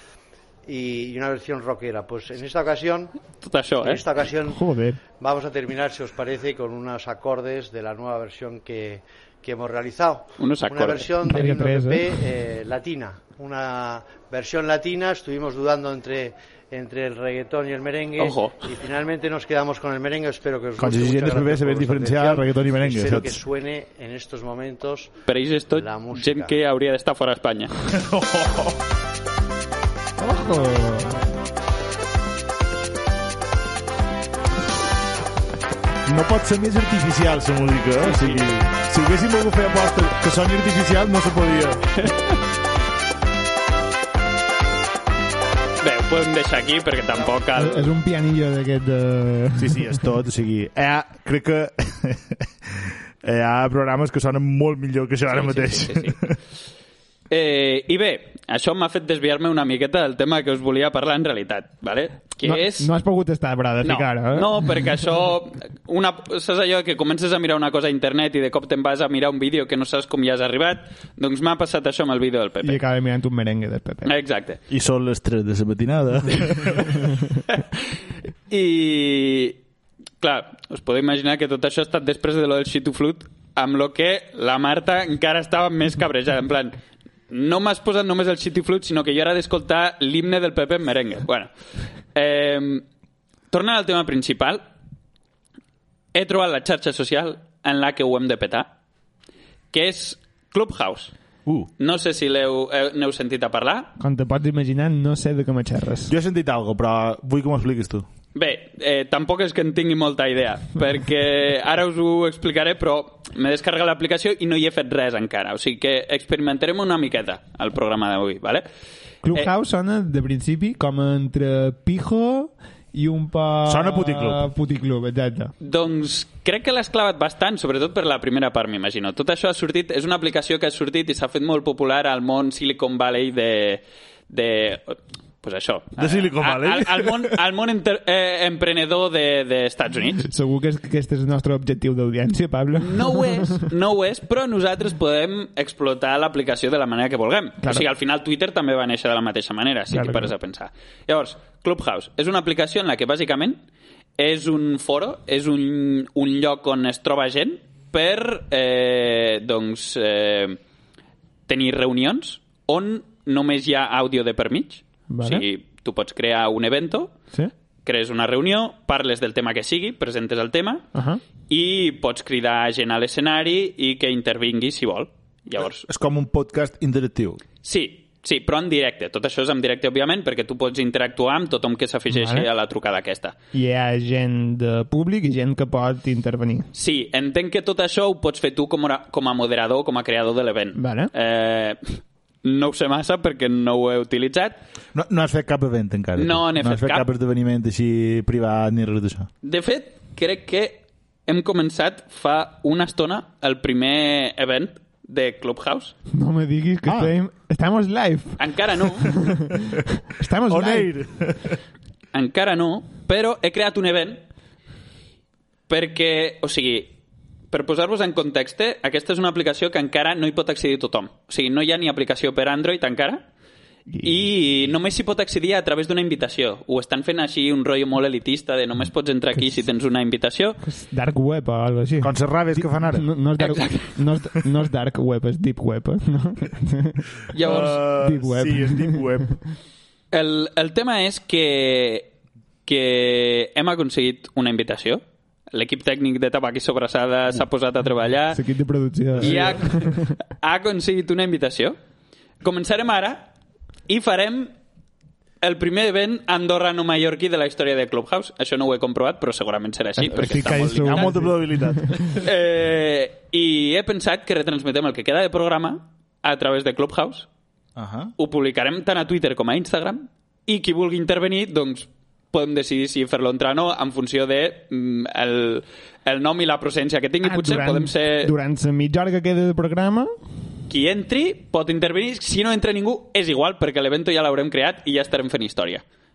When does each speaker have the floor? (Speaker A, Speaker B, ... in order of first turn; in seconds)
Speaker A: 0.7-3.2, 3.8-4.6, 5.2-25.1, 25.7-26.5
Speaker B: 3.4-4.0, 10.4-11.1, 18.2-18.6, 25.3-27.7, 38.0-38.5, 42.0-42.4, 45.8-47.9, 55.3-56.4, 57.3-62.9, 63.8-72.8, 74.1-74.6, 78.5-79.6, 80.2-86.8, 87.3-91.5, 92.2-92.8, 93.5-94.7, 96.1-98.7, 99.7-101.1, 101.8-103.9, 108.3-118.7, 125.6-140.3, 142.8-153.6, 154.2-160.6, 161.5-167.2, 167.8-170.9, 171.5-175.9, 177.6-183.4, 186.7-194.6, 196.2-197.1, 199.4-205.9, 208.4-209.2, 212.1-214.2, 215.7-217.0, 217.5-223.2, 224.0-230.6, 233.4-233.9, 237.3-237.8, 240.1-242.1, 242.7-248.4, 249.2-251.8, 252.4-253.3, 253.9-254.5, 255.4-261.2, 262.1-267.3, 268.2-278.3, 280.7-285.8
Speaker C: 4.5-5.0, 11.3-12.2, 30.2-31.2, 47.6-50.0, 62.4-64.8, 72.6-74.1, 104.0-106.1, 119.2-125.5, 140.3-143.7, 149.9-150.3, 165.1-165.4, 170.9-171.2, 182.1-182.5, 183.5-186.7, 190.8-191.1, 206.1-208.4, 209.0-210.9, 230.6-239.4, 248.3-250.1, 260.0-262.1, 277.2-280.1
Speaker D: 20.8-23.4, 27.9-28.8, 36.1-41.9, 49.6-56.4, 74.7-77.0, 106.1-108.1, 123.7-124.4, 136.0-137.4, 175.9-177.4, 194.9-199.3, 206.9-207.1, 210.5-211.6, 232.0-233.1, 237.4-239.4, 249.2-249.6, 260.8-262.0, 267.8-268.1